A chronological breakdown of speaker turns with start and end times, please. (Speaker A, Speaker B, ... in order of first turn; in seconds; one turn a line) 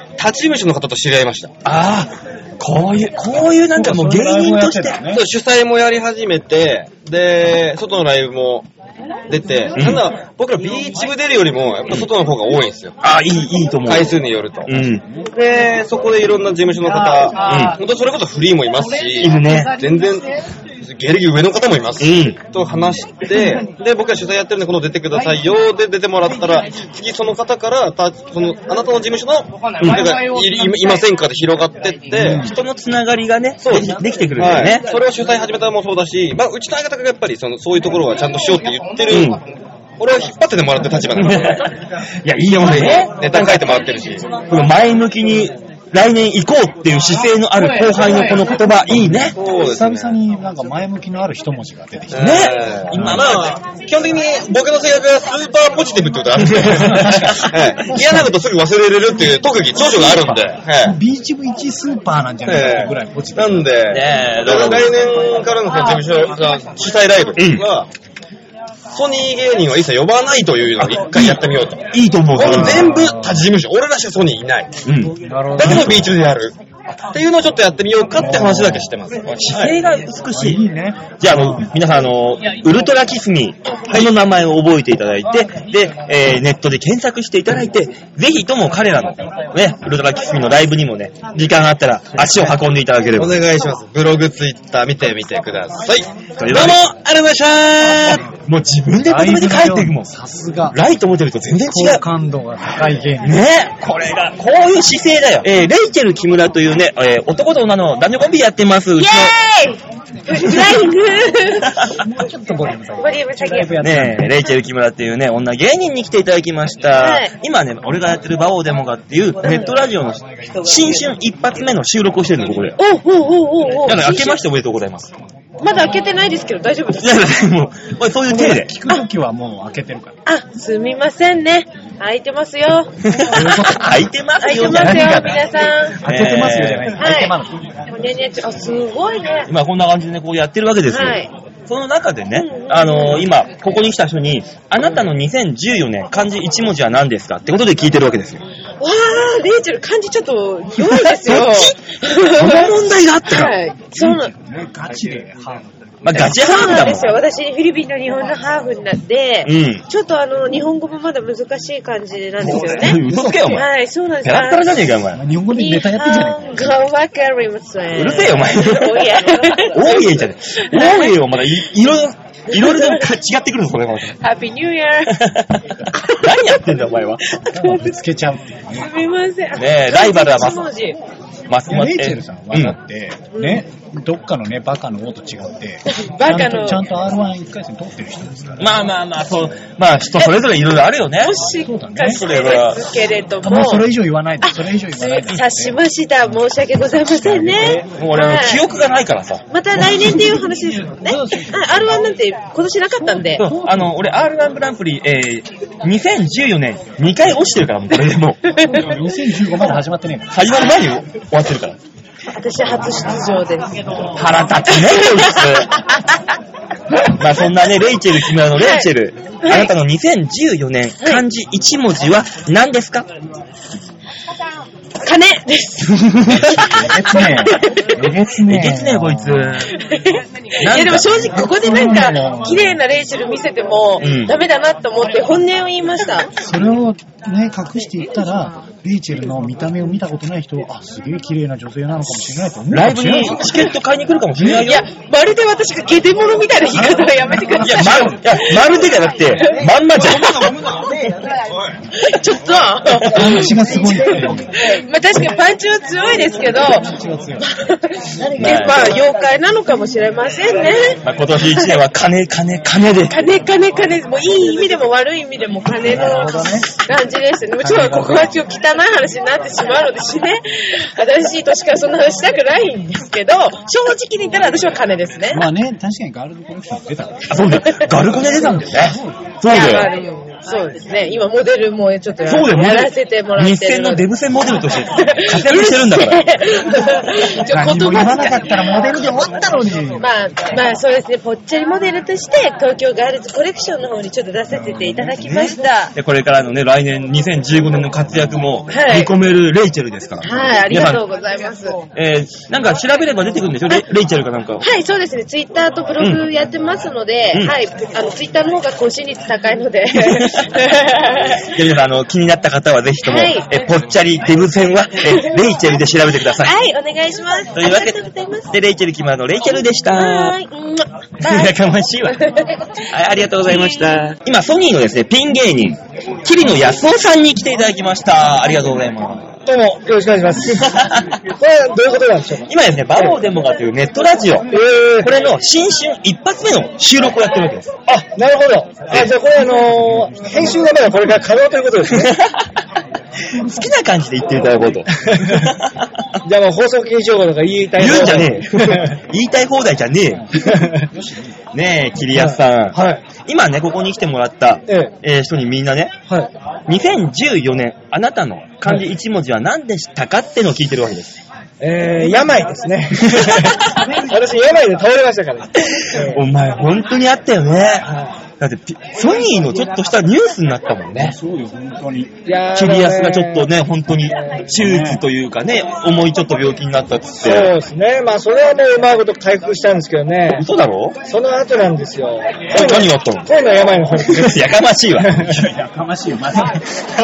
Speaker A: 0.2-1.5
Speaker B: 1.6-5.0
Speaker C: 3.5-5.3
Speaker A: 5.1-8.7
Speaker A: 9.3-13.0
Speaker B: 9.8-10.1
Speaker B: 13.0-15.0
Speaker A: 13.8-14.7
Speaker C: 14.7-15.3
Speaker A: 15.3-32.5
Speaker B: 17.4-17.8
Speaker B: 19.2-19.8
Speaker B: 22.0-22.4
Speaker C: 22.6-23.0
Speaker B: 29.8-30.1
Speaker B: 32.1-34.9
Speaker C: 32.1-32.5
Speaker A: 33.6-39.4
Speaker B: 39.1-39.4
Speaker A: 40.0-41.7
Speaker B: 41.1-41.7
Speaker B: 42.2-43.8
Speaker A: 42.5-44.3
Speaker B: 44.3-49.4
Speaker C: 48.9-53.5
Speaker A: 49.4-50.2
Speaker A: 52.1-61.0
Speaker B: 52.2-53.5
Speaker C: 56.6-58.4
Speaker B: 56.6-57.2
Speaker C: 59.2-63.8
Speaker A: 62.5-67.9
Speaker B: 63.9-65.1
Speaker B: 67.4-67.7
Speaker A: 68.9-74.7
Speaker B: 70.8-72.9
Speaker C: 72.4-73.5
Speaker B: 74.8-76.1
Speaker C: 75.2-76.1
Speaker A: 75.6-79.8
Speaker C: 78.2-78.9
Speaker B: 79.3-80.6
Speaker C: 80.3-81.7
Speaker B: 81.2-93.4
Speaker A: 93.2-96.8
Speaker B: 96.4-100.1
Speaker C: 97.8-98.3
Speaker C: 99.0-100.8
Speaker B: 100.7-102.0
Speaker C: 101.6-103.4
Speaker B: 103.2-109.3
Speaker D: 109.0-111.7
Speaker C: 111.9-114.4
Speaker D: 113.0-113.8
Speaker B: 113.8-122.8
Speaker D: 117.0-117.3
Speaker D: 119.4-119.7
Speaker D: 122.8-124.4
Speaker B: 123.8-125.1
Speaker D: 125.6-127.2
Speaker B: 127.0-128.7
Speaker C: 128.3-130.2
Speaker D: 130.3-132.9
Speaker B: 133.1-135.4
Speaker C: 133.3-137.8
Speaker D: 134.4-136.0
Speaker B: 136.0-137.1
Speaker D: 137.0-137.4
Speaker D: 137.9-139.5
Speaker B: 139.5-148.4
Speaker D: 140.9-141.3
Speaker D: 142.3-143.3
Speaker D: 148.8-152.7
Speaker B: 150.8-151.8
Speaker B: 152.3-153.5
Speaker D: 153.3-154.3
Speaker C: 153.9-156.3
Speaker B: 156.0-157.2
Speaker D: 156.1-164.7
Speaker B: 159.4-159.8
Speaker B: 162.4-163.7
Speaker C: 162.9-163.6
Speaker B: 164.2-165.2
Speaker C: 165.1-166.9
Speaker D: 165.5-171.2
Speaker B: 167.9-174.2
Speaker D: 172.5-173.1
Speaker D: 174.2-175.3
Speaker B: 176.1-177.2
Speaker D: 177.3-177.9
Speaker C: 177.5-178.9
Speaker D: 178.7-181.0
Speaker B: 179.6-180.7
Speaker B: 181.5-182.8
Speaker C: 181.7-188.8
Speaker D: 183.3-183.7
Speaker D: 185.9-186.8
Speaker B: 188.6-191.3
Speaker D: 191.2-193.8
Speaker C: 191.4-192.2
Speaker B: 192.0-192.8
Speaker C: 193.4-196.4
Speaker D: 194.4-198.6
Speaker C: 197.1-197.9
Speaker B: 197.6-200.3
Speaker D: 199.5-203.4
Speaker C: 199.9-202.1
Speaker C: 203.0-204.0
Speaker B: 203.4-208.4
Speaker D: 208.5-208.9
Speaker C: 208.6-210.6
Speaker B: 210.3-211.8
Speaker D: 212.3-213.8
Speaker B: 214.2-215.7
Speaker D: 214.7-215.7
Speaker B: 217.1-223.1
Speaker D: 218.6-218.9
Speaker D: 219.4-219.7
Speaker D: 225.0-228.0
Speaker C: 226.3-229.6
Speaker B: 226.3-226.7
Speaker B: 228.5-229.7
Speaker D: 229.7-236.3
Speaker B: 230.6-231.5
Speaker C: 231.3-232.8
Speaker B: 234.0-234.4
Speaker C: 236.4-243.6
Speaker B: 242.7-244.8
Speaker D: 244.4-248.4
Speaker C: 246.8-248.4
Speaker B: 247.6-250.7
Speaker D: 251.9-261.8
Speaker B: 253.1-253.4
Speaker C: 253.1-254.5
Speaker C: 256.2-257.5
Speaker C: 258.2-258.6
Speaker B: 258.4-259.0
Speaker B: 261.0-263.2
Speaker D: 263.1-275.4
Speaker C: 265.8-266.7
Speaker C: 267.6-268.4
Speaker C: 275.3-277.6
Speaker B: 277.3-279.9
Speaker D: 277.7-278.4
Speaker C: 278.4-279.4
Speaker D: 279.5-284.1
Speaker B: 282.2-286.4
Speaker D: 284.9-288.8
Speaker C: 287.5-290.1
Speaker D: 290.0-295.9
Speaker B: 295.2-301.0
Speaker D: 298.7-299.1
Speaker D: 300.2-301.8
Speaker B: 301.9-304.7
Speaker D: 304.6-311.4
Speaker B: 306.0-306.3
Speaker B: 311.5-316.5
Speaker D: 313.0-313.8
Speaker D: 315.0-315.3
Speaker D: 316.3-318.5
Speaker B: 317.5-318.0
Speaker B: 318.5-320.4
Speaker D: 319.9-321.6
Speaker B: 321.2-322.2
Speaker D: 322.1-322.8
Speaker B: 322.9-329.3
Speaker D: 323.4-324.0
Speaker E: 329.5-333.2
Speaker B: 330.6-331.2
Speaker B: 332.5-337.8
Speaker E: 334.5-335.1
Speaker E: 337.9-342.1
Speaker B: 338.9-339.6
Speaker C: 340.1-340.7
Speaker B: 341.9-342.4
Speaker C: 343.4-343.7
Speaker B: 343.4-345.9
Speaker E: 345.0-345.4
Speaker E: 346.2-349.0
Speaker B: 347.8-350.5
Speaker C: 350.1-351.4
Speaker E: 350.4-350.9
Speaker B: 351.5-356.0
Speaker E: 352.1-353.0
Speaker E: 354.7-354.9
Speaker B: 356.7-361.2
Speaker E: 361.6-366.2
Speaker B: 363.1-363.5
Speaker B: 365.6-371.2
Speaker E: 367.9-368.1
Speaker C: 370.9-372.2
Speaker E: 372.2-373.5
Speaker B: 372.5-377.6
Speaker C: 374.6-375.0
Speaker E: 377.2-380.4
Speaker B: 380.3-381.0
Speaker E: 381.1-384.4
Speaker B: 382.5-383.3
Speaker B: 384.0-385.3
Speaker E: 385.0-385.4
Speaker C: 385.2-386.6